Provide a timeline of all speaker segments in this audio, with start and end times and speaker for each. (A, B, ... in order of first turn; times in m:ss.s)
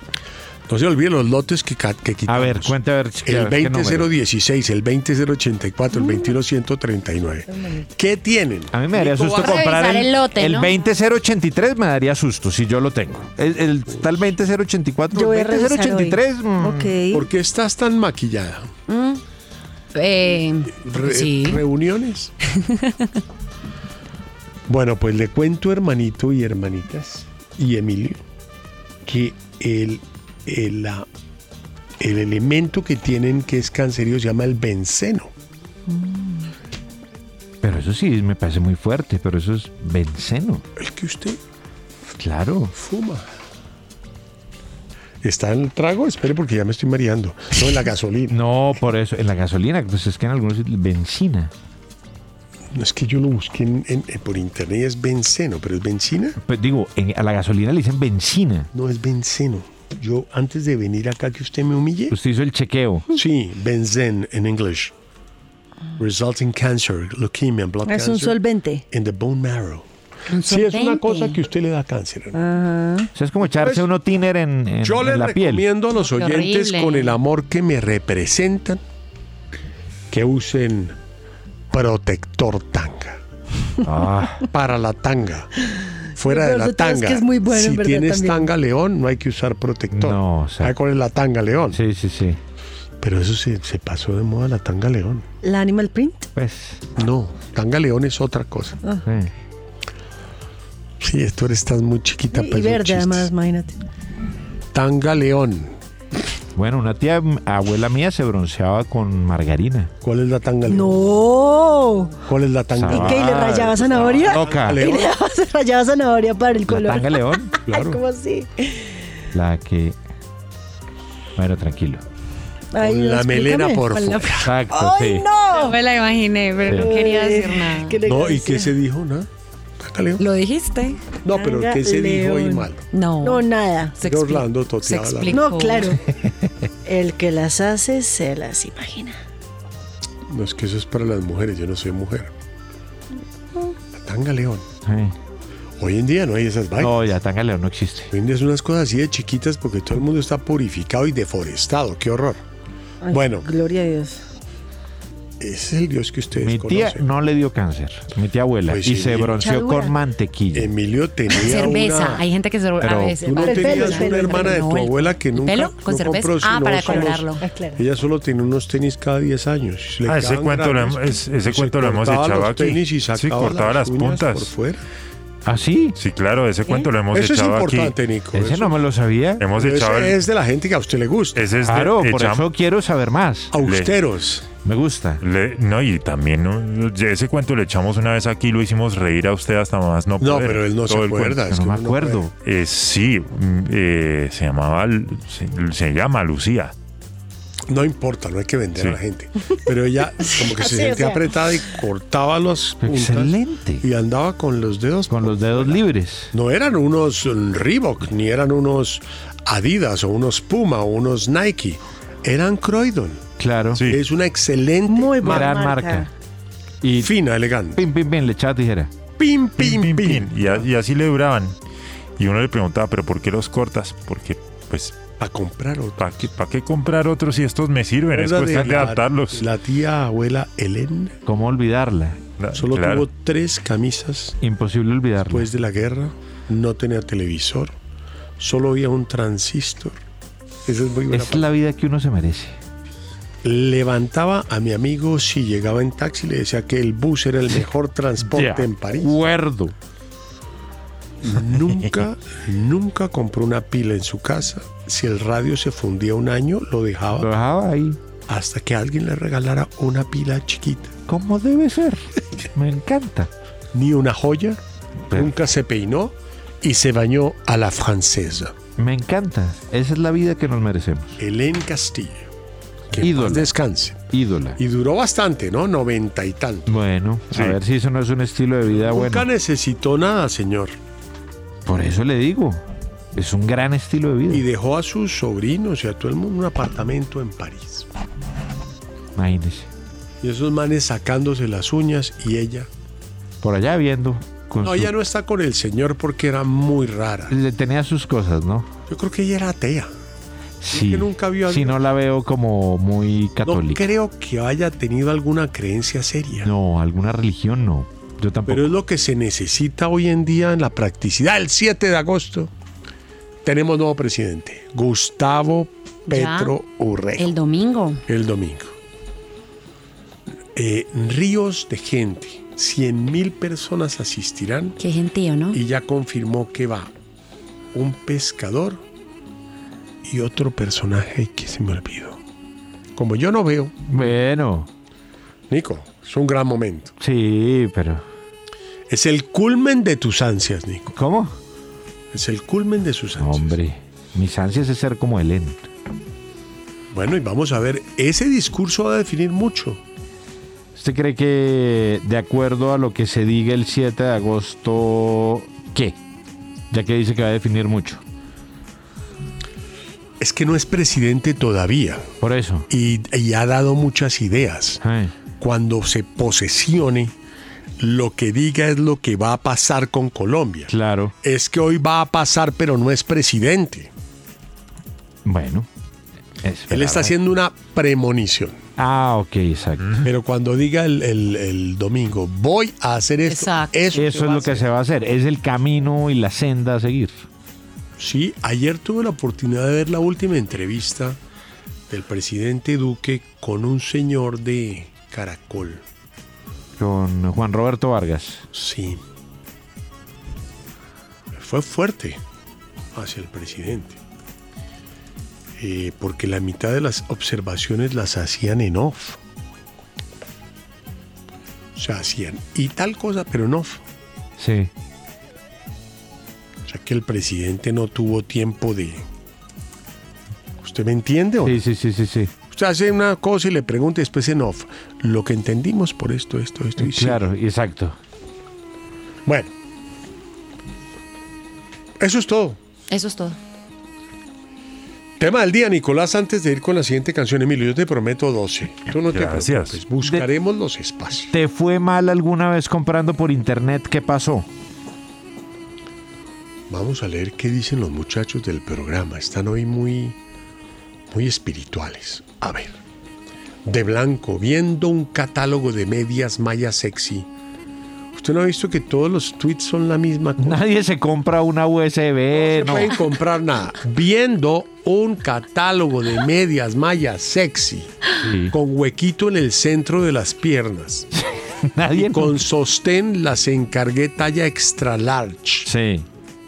0:00.7-0:09.8 A
0:02.3-0:04.1 B
0:05.9-0:06.4 C
0:08.7-0:16.9 B
0:09.4-0:10.7 D
0:13.9-0:14.3 A
0:15.1-0:17.3 C
0:17.1-0:18.7 A
0:18.9-0:19.2 D
0:19.9-0:21.6 D
0:20.8-0:22.3 A
0:22.6-0:23.0 D
0:24.7-0:28.2 A
0:29.1-0:31.1 A
0:32.0-0:35.3 A
0:35.9-0:36.5 C
0:37.6-0:40.6 B
0:40.8-0:41.4 A
0:42.2-0:42.7 B
0:42.7-0:43.3 A
0:45.2-0:48.4 A
0:48.3-0:51.5 B
0:52.7-0:56.4 A
0:56.4-0:58.7 B
0:58.7-1:02.2 A
1:02.1-1:03.1 B
1:03.2-1:04.9 A
1:06.0-1:08.4 A
1:07.9-1:08.8 C
1:08.9-1:09.8 A
1:10.3-1:11.4 D
1:10.4-1:12.4 A
1:12.4-1:13.1 C
1:13.2-1:15.7 B
1:13.6-1:13.9 A
1:14.8-1:18.8 A
1:16.0-1:17.2 D
1:20.1-1:21.0 A
1:21.7-1:23.2 A
1:23.8-1:24.5 B
1:24.5-1:25.5 A
1:26.2-1:31.8 A
1:26.2-1:28.5 C
1:29.9-1:30.8 B
1:31.7-1:32.4 B
1:33.0-1:35.3 A
1:35.4-1:36.3 C
1:36.4-1:36.8 B
1:37.0-1:38.8 A
1:39.0-1:39.3 B
1:41.0-1:43.3 A
1:42.3-1:43.7 C
1:44.7-1:45.8 A
1:46.6-1:49.9 B
1:50.0-1:51.0 A
1:50.7-1:52.2 C
1:52.3-1:55.2 A
1:52.8-1:54.9 B
1:52.9-1:58.9 C
1:56.7-1:57.6 B
1:57.7-1:58.0 A
1:59.3-2:00.0 B
2:01.4-2:02.0 B
2:02.7-2:05.8 C
2:02.8-2:04.5 A
2:04.4-2:05.3 B
2:05.5-2:08.0 D
2:06.7-2:06.9 B
2:06.7-2:08.8 C
2:08.1-2:09.3 A
2:09.8-2:10.2 A
2:10.2-2:11.0 D
2:11.2-2:12.8 A
2:11.3-2:12.7 C
2:12.9-2:13.4 D
2:13.2-2:14.0 C
2:14.0-2:16.0 D
2:14.0-2:15.4 A
2:15.3-2:16.0 C
2:16.9-2:19.2 C
2:20.3-2:22.3 A
2:23.9-2:24.7 A
2:24.8-2:25.2 B
2:25.8-2:27.0 A
2:26.8-2:28.1 B
2:28.1-2:32.4 A
2:33.0-2:34.2 C
2:33.1-2:33.5 A
2:35.4-2:37.1 A
2:36.4-2:40.7 B
2:38.7-2:39.4 A
2:39.3-2:40.0 C
2:40.5-2:42.3 A
2:41.3-2:47.4 D
2:42.8-2:43.2 B
2:43.2-2:54.8 A
2:43.4-2:44.7 C
2:46.8-2:47.8 C
2:50.0-2:54.5 E
2:55.5-2:56.0 B
2:56.0-2:58.0 E
2:57.1-2:58.8 A
2:58.3-2:59.4 B
2:59.4-3:00.2 E
2:59.6-3:01.5 A
3:01.4-3:02.5 E
3:01.6-3:03.5 B
3:03.5-3:04.4 A
3:03.6-3:04.0 E
3:04.6-3:05.2 B
3:05.2-3:11.3 E
3:10.2-3:12.2 A
3:11.2-3:12.3 B
3:12.4-3:16.7 E
3:17.7-3:33.2 A
3:20.2-3:21.4 C
3:22.8-3:23.8 B
3:25.1-3:26.3 B
3:33.4-3:33.8 B
3:33.8-3:34.0 E
3:33.8-3:35.6 A
3:34.9-3:36.1 C
3:35.2-3:36.1 B
3:36.8-3:37.1 B
3:37.0-3:37.8 A
3:37.8-3:38.9 B
3:39.2-3:40.6 A
3:39.6-3:41.6 E
3:42.2-3:45.0 E
3:45.2-3:46.0 A
3:46.0-3:49.4 E
3:48.1-3:51.2 A
3:51.2-3:52.2 B
3:52.4-3:53.1 E
3:52.6-3:54.4 A
3:54.4-3:55.5 B
3:55.3-3:57.8 A
3:58.4-4:00.0 A
4:00.6-4:01.5 A
4:01.1-4:02.6 B
4:03.4-4:09.2 A
4:08.2-4:09.7 B
4:11.2-4:17.3 A
4:17.2-4:18.0 B
4:18.3-4:20.9 A
4:21.1-4:23.3 B
4:23.7-4:24.6 A
4:25.1-4:28.5 A
4:28.8-4:31.2 B
4:31.2-4:32.3 A
4:32.9-4:34.0 A
4:33.0-4:33.5 B
4:34.1-4:34.6 B
4:34.6-4:36.7 A
4:36.7-4:39.3 B
4:37.3-4:37.6 E
4:38.7-4:40.8 A
4:41.7-4:42.6 B
4:43.1-4:44.4 B
4:44.3-4:47.9 A
4:49.2-4:49.7 B
4:50.2-4:52.7 A
4:53.4-4:54.9 B
4:54.6-4:57.4 A
4:57.3-4:58.7 B
4:58.9-4:59.9 A
5:00.6-5:03.8 B
5:00.7-5:01.8 A
5:03.4-5:06.5 A
5:06.4-5:08.7 B
5:08.5-5:12.5 A
5:13.4-5:17.3 A
5:16.1-5:16.5 D
5:17.2-5:18.0 D
5:18.1-5:18.8 A
5:20.6-5:24.8 A
5:24.8-5:25.6 D
5:25.5-5:26.9 A
5:27.7-5:28.8 A
5:30.0-5:32.2 A
5:33.0-5:33.8 A
5:33.9-5:34.7 B
5:35.5-5:36.9 A
5:37.0-5:38.0 B
5:38.9-5:40.9 A
5:40.9-5:41.4 B
5:42.1-5:43.6 A
5:43.2-5:45.6 B
5:46.9-5:49.8 A
5:50.8-5:56.0 B
5:56.7-5:58.0 B
6:00.2-6:02.1 A
6:02.2-6:02.7 B
6:02.7-6:04.8 A
6:04.8-6:05.1 B
6:05.4-6:07.1 A
6:07.8-6:13.9 A
6:10.7-6:11.1 B
6:15.2-6:15.7 B
6:16.4-6:17.2 B
6:16.7-6:18.6 A
6:18.8-6:20.0 B
6:20.0-6:24.6 A
6:23.3-6:24.4 D
6:24.0-6:27.2 B
6:28.0-6:31.2 A
6:31.9-6:35.8 A
6:36.8-6:38.4 B
6:38.5-6:39.0 A
6:41.4-6:42.2 A
6:42.9-6:44.0 A
6:45.6-6:49.2 A
6:51.8-6:53.8 A
6:54.4-6:54.7 B
6:56.7-6:59.0 A
7:00.6-7:01.6 A
7:01.4-7:02.3 B
7:02.5-7:07.3 A
7:06.8-7:08.0 B
7:12.0-7:12.6 A
7:12.9-7:13.4 D
7:15.2-7:21.3 A
7:19.0-7:19.8 E
7:20.0-7:20.3 B
7:21.3-7:24.5 B
7:26.7-7:30.2 A
7:31.1-7:32.8 A
7:33.7-7:37.3 A
7:38.1-7:40.6 A
7:40.4-7:43.0 B
7:42.4-7:47.9 A
7:48.2-7:48.6 B
7:48.5-7:51.1 A
7:51.1-7:52.4 B
7:52.0-7:55.7 A
7:55.7-7:56.1 B